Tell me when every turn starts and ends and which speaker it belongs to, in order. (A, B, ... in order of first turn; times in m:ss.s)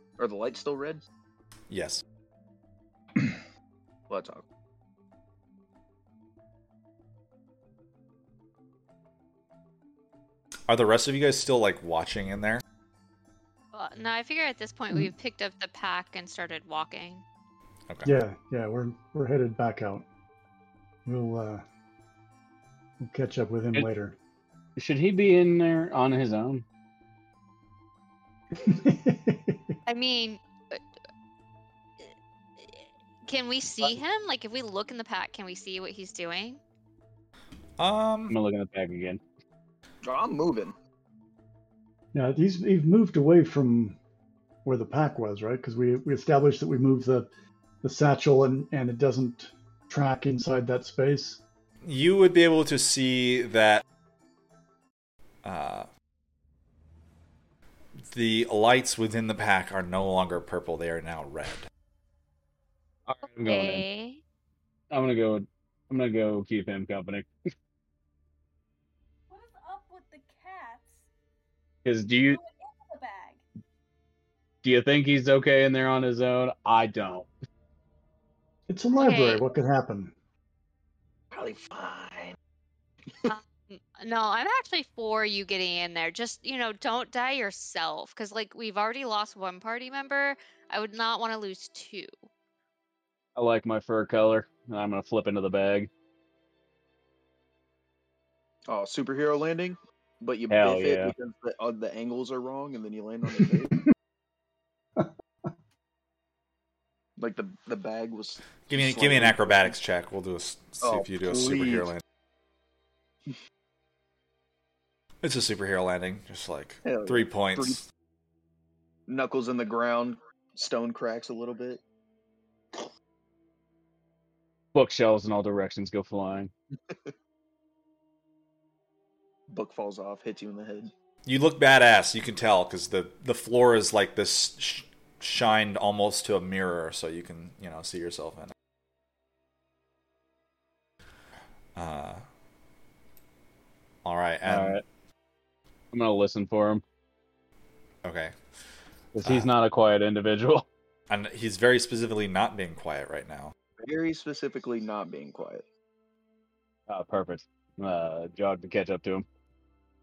0:00.2-0:01.0 A
0:01.7-0:02.0 B
0:04.1-0:04.4 A
0:10.7-0:12.6 B
0:13.7-0:17.2 C
0:17.9-0:18.1 B
0:18.0-0:20.0 D
0:21.0-0:21.6 D
0:23.0-0:24.2 D
0:24.8-0:26.6 E
0:28.5-0:29.8 D
0:29.8-0:30.8 C
0:32.0-0:36.6 C
0:37.8-0:38.4 B
0:38.3-0:39.2 E
0:40.0-0:40.8 A
0:42.1-0:44.0 D
0:44.6-0:47.3 D
0:47.8-0:51.4 D
0:51.8-0:53.8 B
0:55.4-0:55.9 B
0:58.1-1:01.7 B
1:03.1-1:03.8 E
1:03.4-1:04.2 C
1:04.9-1:07.3 E
1:09.3-1:11.0 F
1:11.8-1:12.4 E
1:12.2-1:13.4 F
1:14.6-1:17.3 E
1:18.7-1:20.1 D
1:19.0-1:19.5 C
1:21.3-1:22.4 A
1:23.2-1:32.2 C
1:33.4-1:35.9 E
1:38.7-1:43.8 A
1:40.5-1:41.1 E
1:43.3-1:43.6 D
1:47.2-1:49.7 A
1:48.6-1:52.0 B
1:50.8-1:51.9 A
1:55.2-1:57.8 B
1:56.8-1:57.8 A
1:59.1-2:01.8 A
2:04.7-2:06.5 E
2:06.9-2:07.1 A
2:09.5-2:10.9 A
2:11.2-2:18.5 B
2:21.8-2:22.2 B
2:24.0-2:24.8 B
2:24.4-2:24.8 E
2:25.9-2:26.8 E
2:28.0-2:28.4 B
2:29.1-2:30.7 E
2:29.2-2:29.5 B
2:31.1-2:33.5 B
2:33.8-2:35.6 A
2:36.9-2:39.2 E